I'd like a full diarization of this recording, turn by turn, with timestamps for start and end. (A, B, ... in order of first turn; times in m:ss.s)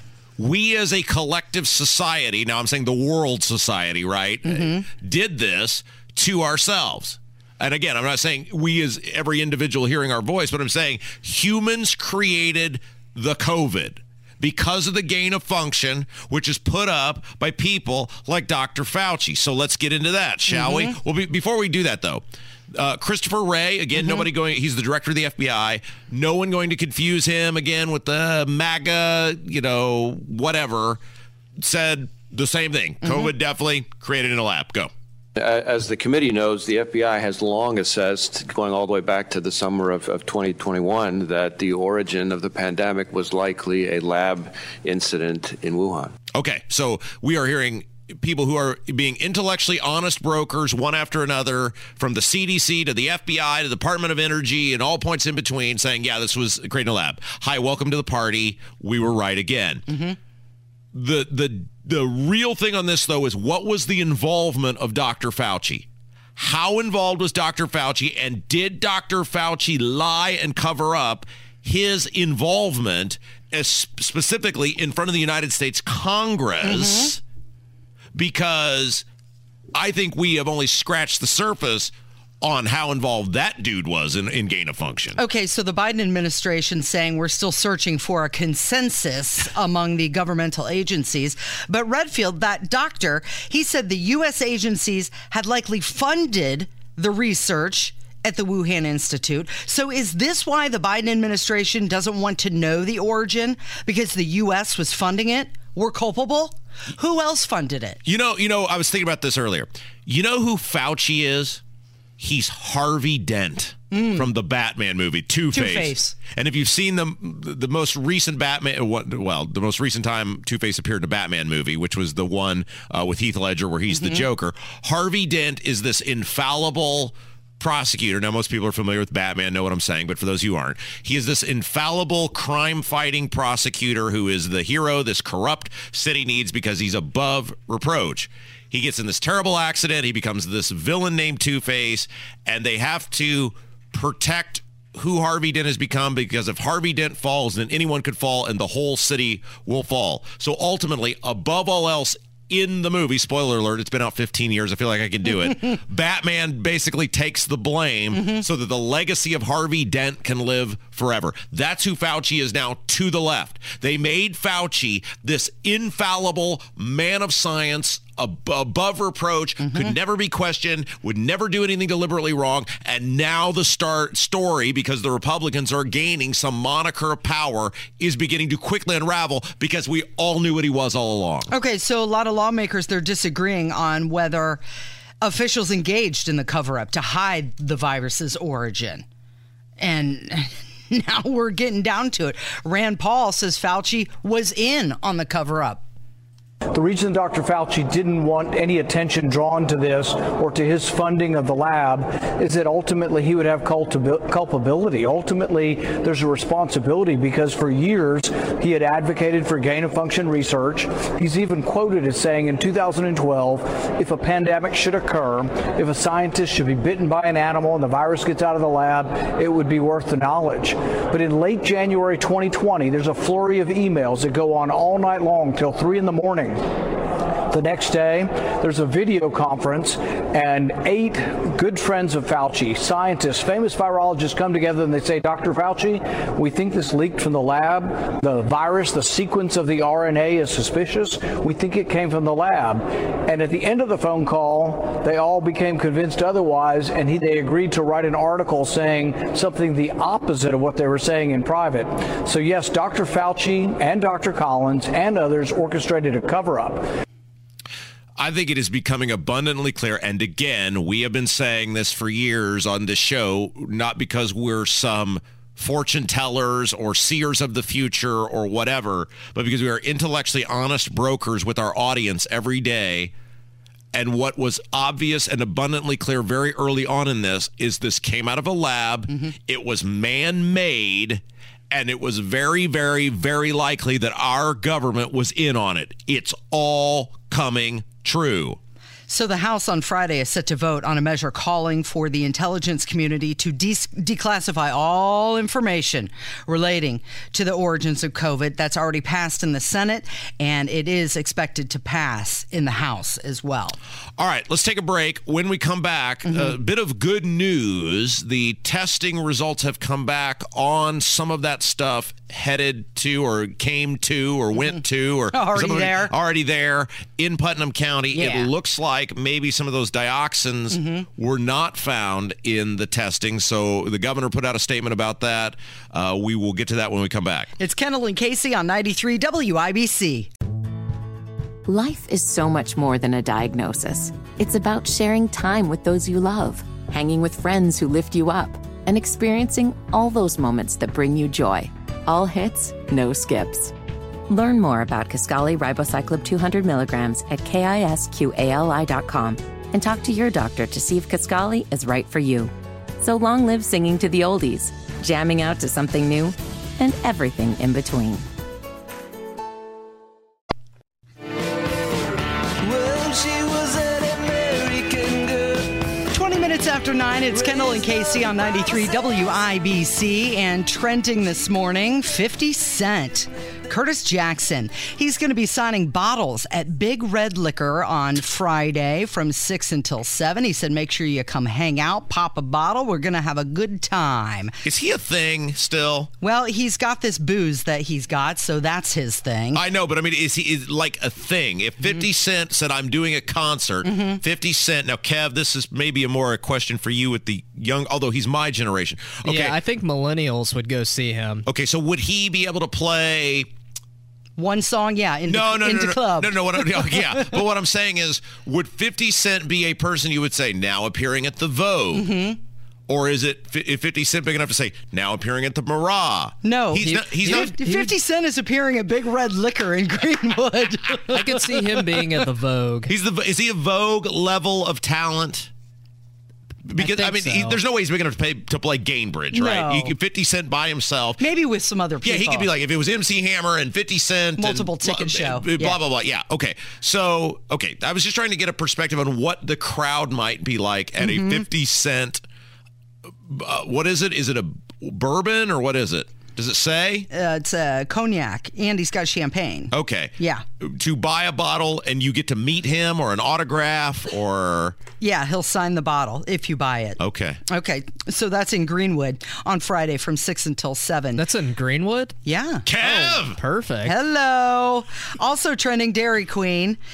0:00.4-0:31.0 A
0:04.4-0:04.8 B
0:20.5-0:20.9 B
0:31.6-0:34.9 A
0:35.4-0:46.1 C
0:46.3-1:00.0 A
0:59.9-1:00.2 B
1:00.9-1:17.2 A
1:16.6-1:17.1 B
1:18.1-1:19.0 A
1:19.7-1:25.2 A
1:25.2-1:48.0 B
1:48.0-1:51.6 A
1:52.2-3:01.5 A
1:53.9-1:54.3 B
1:55.5-1:56.1 B
3:01.5-3:04.6 B
3:05.2-3:09.0 B
3:09.8-3:15.8 B
3:16.7-3:46.6 D
3:47.5-4:16.8 D
4:18.2-4:33.1 A
4:33.9-4:48.6 A
4:49.1-5:03.8 B
5:04.2-5:27.5 A
5:06.3-5:06.5 B
5:15.3-5:16.1 B
5:18.1-5:18.5 B
5:20.7-5:21.0 B
5:27.6-5:30.3 B
5:31.7-5:43.7 E
5:44.3-5:58.2 E
6:02.6-6:05.8 C
6:06.1-6:24.6 B
6:24.6-6:26.1 A
6:26.2-6:29.6 B
6:29.5-6:39.6 A
6:33.8-6:34.2 B
6:39.2-6:41.4 F
6:41.4-6:43.5 A
6:44.4-6:47.4 B
6:45.3-6:52.1 A
6:51.9-6:52.4 B
6:52.9-6:57.6 A
6:56.4-7:01.8 B
6:56.8-6:57.9 F
7:01.1-7:02.9 F
7:02.9-7:05.5 A
7:06.6-7:11.2 A
7:06.8-7:07.6 F
7:09.3-7:09.9 B
7:11.2-7:12.5 B
7:12.0-7:22.2 A
7:14.4-7:15.8 B
7:21.0-7:21.4 B
7:23.2-7:27.1 A
7:27.1-7:30.4 B
7:29.7-7:34.8 A
7:35.0-7:41.2 B
7:37.0-7:37.4 A
7:41.2-7:42.2 F
7:42.2-7:42.7 B
7:42.6-7:43.4 A
7:42.8-7:44.0 F
7:43.8-7:46.8 B